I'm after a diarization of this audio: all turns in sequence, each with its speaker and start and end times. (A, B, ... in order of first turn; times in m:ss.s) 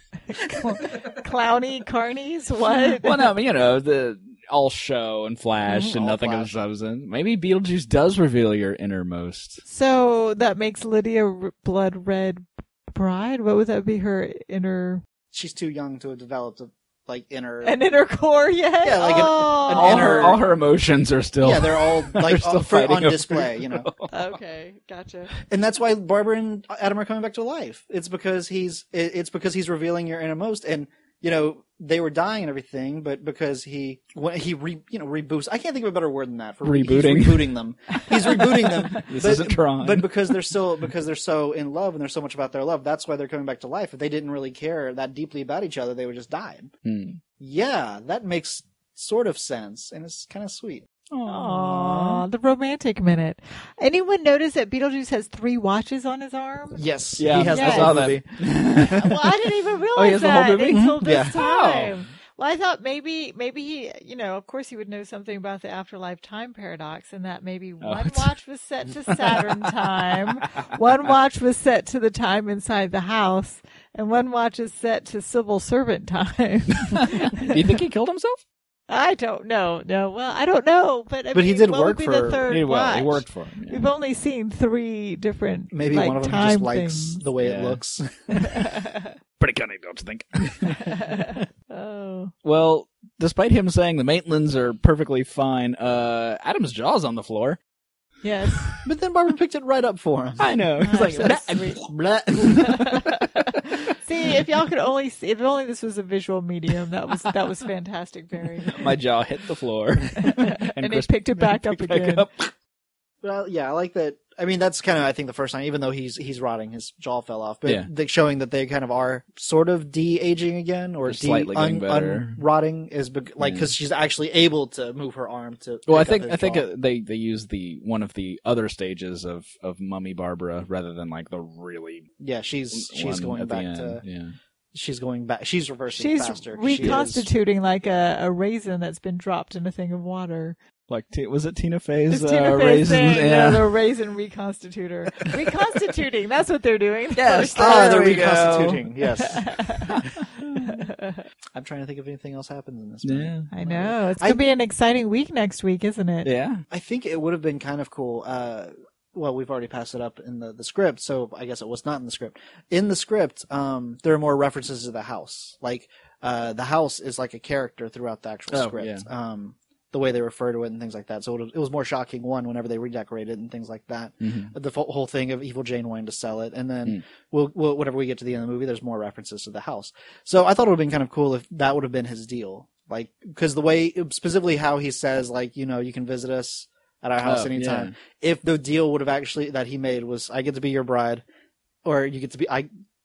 0:00.3-0:03.3 A
0:02.8-0:09.6 B
0:05.7-0:06.6 C
0:09.6-0:15.0 A
0:15.3-0:17.8 C
0:17.6-0:20.4 A
0:18.8-0:20.4 C
0:19.7-0:24.2 B
0:21.4-0:23.9 C
0:24.1-0:25.3 A
0:25.5-0:46.7 C
0:36.6-0:37.5 B
0:39.0-0:40.1 B
0:46.8-0:47.2 B
0:47.4-0:50.9 C
0:51.1-0:52.3 B
0:51.3-0:56.8 A
0:56.8-0:59.1 C
0:57.2-0:59.2 B
0:57.4-0:58.0 A
0:59.0-1:17.6 A
0:59.9-1:02.0 B
1:00.7-1:01.4 C
1:07.8-1:08.3 B
1:10.1-1:10.6 B
1:16.8-1:18.4 B
1:18.9-1:27.2 A
1:21.3-1:22.4 C
1:22.5-1:23.9 B
1:25.7-1:28.5 C
1:27.4-1:27.8 B
1:28.3-1:29.1 A
1:29.4-1:31.0 B
1:30.8-1:32.3 A
1:32.4-1:37.6 B
1:38.2-1:38.7 A
1:38.5-1:38.8 B
1:38.8-1:40.6 C
1:40.4-1:41.9 B
1:40.8-1:41.8 A
1:41.9-1:42.9 C
1:42.4-1:43.5 B
1:44.0-1:48.9 A
1:48.7-1:52.5 B
1:50.2-1:52.3 A
1:53.2-2:06.7 C
2:01.0-2:02.4 B
2:03.4-2:03.7 B
2:05.9-2:12.1 B
2:12.2-2:14.0 C
2:12.7-2:14.4 B
2:14.7-2:17.3 C
2:15.9-2:20.6 A
2:16.7-2:17.0 B
2:20.9-2:23.7 B
2:22.1-2:28.1 A
2:27.2-2:28.9 B
2:27.6-2:30.1 C
2:29.2-2:29.9 A
2:30.0-2:30.7 B
2:30.6-2:31.2 A
2:31.6-2:34.4 C
2:33.0-2:33.5 B
2:33.5-2:36.3 A
2:36.2-2:36.6 B
2:36.7-3:11.2 C
2:48.5-2:49.1 B
2:54.2-2:54.5 B
3:07.2-3:07.9 B
3:11.8-3:12.7 C